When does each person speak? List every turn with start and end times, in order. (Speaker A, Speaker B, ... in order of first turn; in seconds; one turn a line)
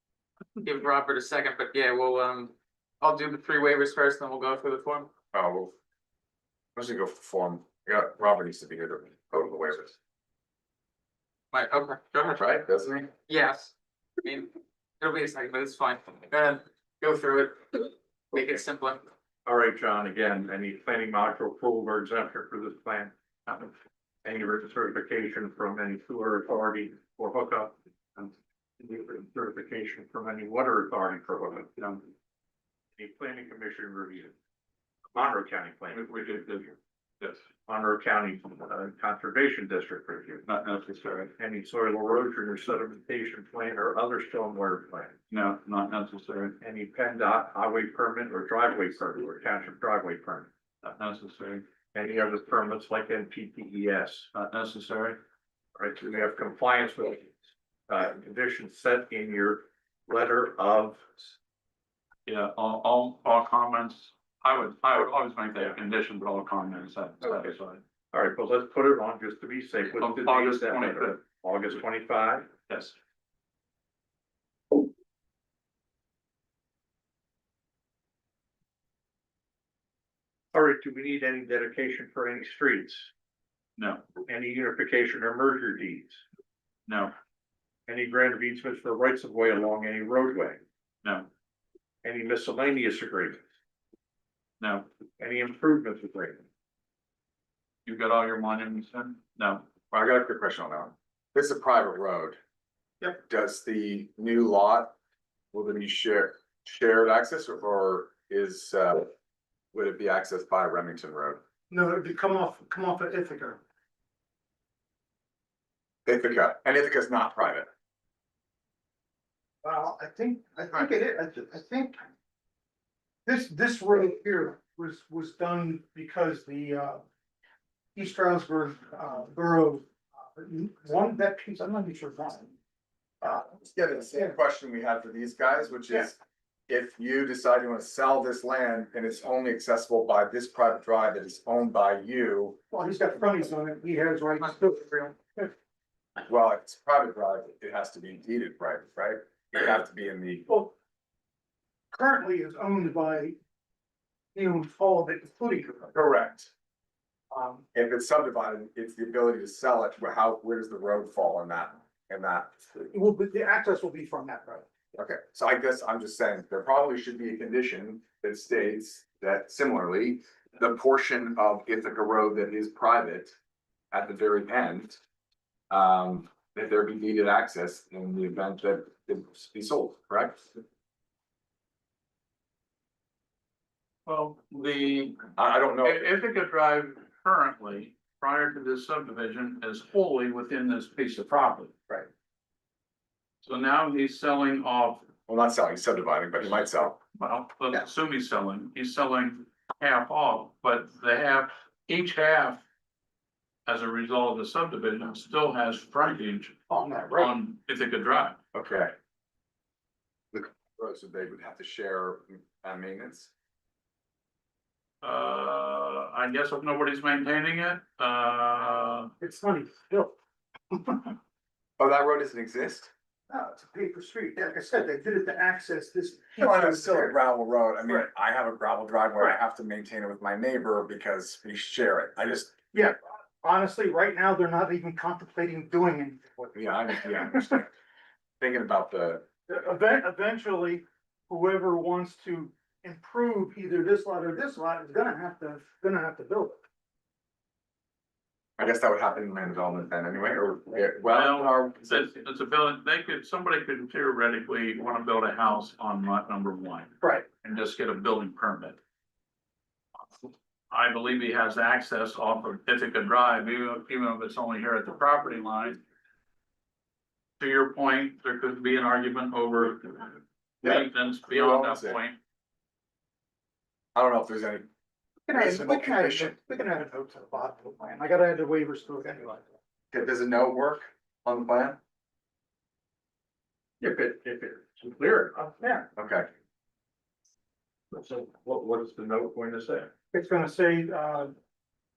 Speaker A: 0.6-5.1
Speaker B: 5.3-5.7
Speaker B: 6.7-10.0
Speaker A: 11.5-12.4
Speaker B: 12.4-13.1
Speaker A: 13.3-19.1
Speaker C: 19.4-23.7
Speaker C: 24.2-31.7
Speaker D: 31.8-32.0
Speaker C: 33.0-34.3
Speaker C: 35.1-36.7
Speaker D: 35.9-36.7
Speaker C: 37.6-40.5
Speaker D: 40.5-41.3
Speaker C: 41.4-45.1
Speaker D: 45.3-46.6
Speaker C: 46.6-50.5
Speaker D: 50.8-51.6
Speaker C: 51.9-54.3
Speaker D: 54.3-55.2
Speaker C: 55.8-57.4
Speaker C: 57.9-61.3
Speaker D: 62.3-67.8
Speaker C: 67.2-67.5
Speaker C: 68.1-72.5
Speaker D: 70.0-71.2
Speaker D: 72.7-72.9
Speaker C: 80.5-83.1
Speaker D: 83.8-84.1
Speaker C: 84.2-86.2
Speaker D: 86.9-87.1
Speaker C: 87.9-90.6
Speaker C: 92.0-93.4
Speaker D: 94.6-94.9
Speaker C: 95.2-96.4
Speaker D: 97.8-99.7
Speaker B: 99.9-102.4
Speaker B: 103.2-104.9
Speaker B: 105.5-109.1
Speaker B: 109.7-111.4
Speaker E: 111.7-113.6
Speaker B: 116.0-117.7
Speaker E: 119.6-122.0
Speaker E: 123.2-127.0
Speaker E: 127.9-132.5
Speaker B: 133.2-142.6
Speaker E: 142.7-145.5
Speaker B: 146.2-150.4
Speaker E: 150.5-150.7
Speaker E: 151.9-153.4
Speaker E: 154.3-155.9
Speaker B: 155.9-156.5
Speaker E: 157.3-157.6
Speaker B: 157.7-162.9
Speaker E: 162.9-164.6
Speaker B: 164.9-173.3
Speaker B: 173.9-175.0
Speaker B: 175.7-180.5
Speaker D: 184.1-191.8
Speaker B: 185.3-186.1
Speaker D: 193.4-195.1
Speaker B: 195.3-197.0
Speaker D: 197.1-202.6
Speaker D: 203.7-206.6
Speaker E: 206.7-207.3
Speaker D: 207.1-208.4
Speaker B: 208.5-208.9
Speaker B: 210.3-213.3
Speaker D: 215.0-219.1
Speaker E: 219.2-220.2
Speaker E: 220.7-221.1
Speaker B: 221.8-222.9
Speaker E: 223.3-227.2
Speaker B: 226.4-232.6
Speaker E: 232.7-237.6
Speaker B: 236.5-237.7
Speaker B: 238.4-239.2
Speaker E: 239.5-246.6
Speaker B: 248.6-252.1
Speaker D: 251.1-258.8
Speaker D: 260.1-265.8
Speaker D: 267.4-272.2
Speaker B: 270.6-272.0
Speaker B: 273.9-274.7
Speaker E: 275.3-279.4
Speaker B: 275.3-276.4
Speaker B: 279.9-281.8
Speaker C: 283.8-285.6
Speaker E: 285.6-285.9
Speaker B: 286.0-286.3
Speaker C: 287.9-289.9
Speaker E: 290.1-291.3